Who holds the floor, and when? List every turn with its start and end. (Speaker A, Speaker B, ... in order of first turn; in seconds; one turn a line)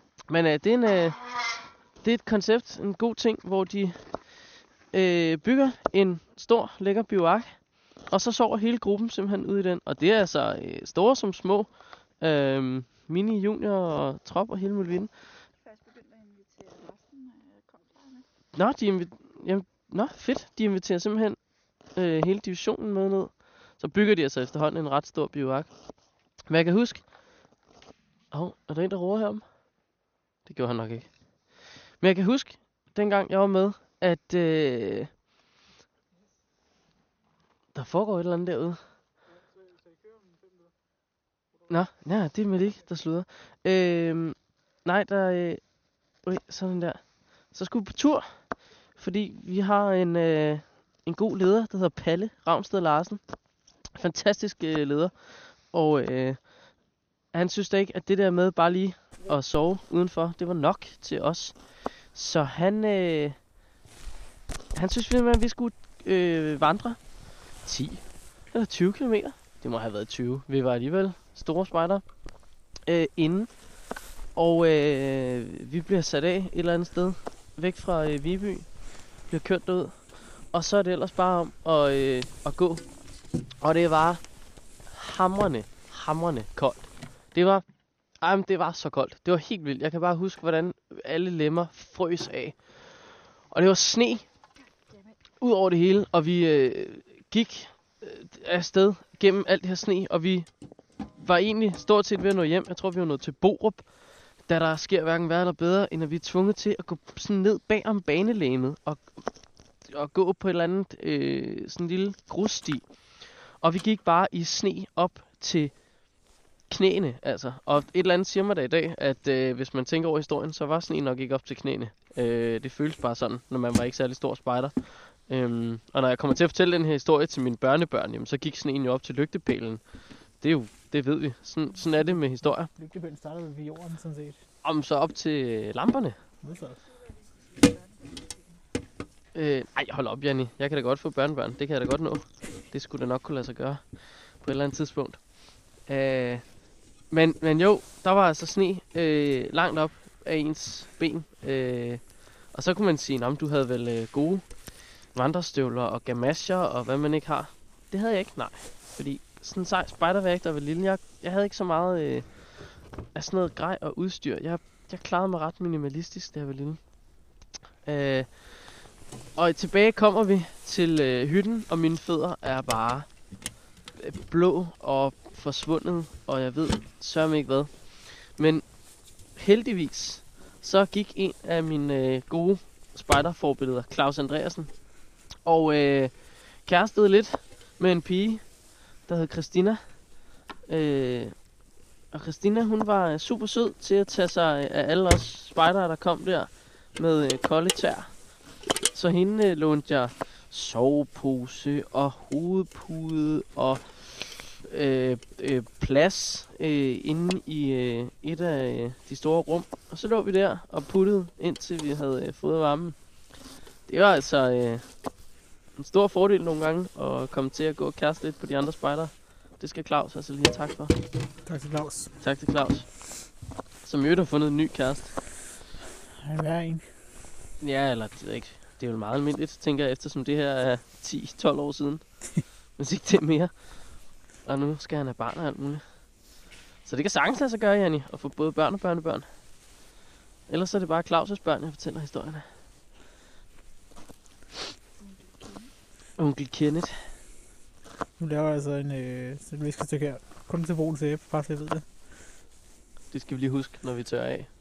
Speaker A: 0.3-1.3
Speaker A: 2.0-15.1
Speaker B: 15.6-18.3
Speaker A: 18.6-21.4
Speaker A: 21.9-25.7
Speaker A: 26.5-27.1
Speaker A: 28.3-29.5
Speaker A: 30.4-35.1
Speaker A: 37.7-38.8
Speaker A: 41.7-53.2
Speaker A: 54.0-56.8
Speaker A: 57.3-63.4
Speaker A: 64.8-72.0
Speaker A: 72.8-73.7
Speaker A: 74.3-78.7
Speaker A: 79.3-82.8
Speaker A: 83.6-84.2
Speaker A: 84.9-87.7
Speaker A: 88.2-94.2
Speaker B: 94.8-95.2
Speaker A: 95.4-100.5
Speaker A: 101.2-103.9
Speaker A: 104.5-109.2
Speaker A: 109.8-115.7
Speaker A: 116.7-129.8
Speaker A: 130.4-132.7
Speaker C: 132.1-134.4
Speaker A: 134.6-136.2
Speaker C: 136.4-136.8
Speaker B: 136.8-138.6
Speaker A: 139.3-145.2
Speaker A: 145.9-146.4
Speaker A: 147.1-154.5
Speaker A: 155.1-162.5
Speaker A: 163.2-166.8
Speaker A: 167.8-168.8
Speaker A: 169.4-173.1
Speaker A: 174.0-178.7
Speaker A: 179.4-184.7
Speaker A: 185.4-188.4
Speaker A: 189.1-189.8
Speaker A: 190.7-191.3
Speaker A: 192.1-198.1
Speaker A: 198.9-213.0
Speaker A: 213.9-214.8
Speaker A: 215.8-220.9
Speaker C: 221.5-222.1
Speaker A: 222.2-222.9
Speaker A: 223.8-225.2
Speaker C: 226.2-226.8
Speaker A: 227.6-232.0
Speaker A: 232.8-233.5
Speaker A: 234.4-235.8
Speaker A: 236.8-239.3
Speaker A: 240.5-242.5
Speaker B: 245.0-245.7
Speaker A: 246.2-247.0
Speaker C: 248.2-251.8
Speaker A: 253.1-254.5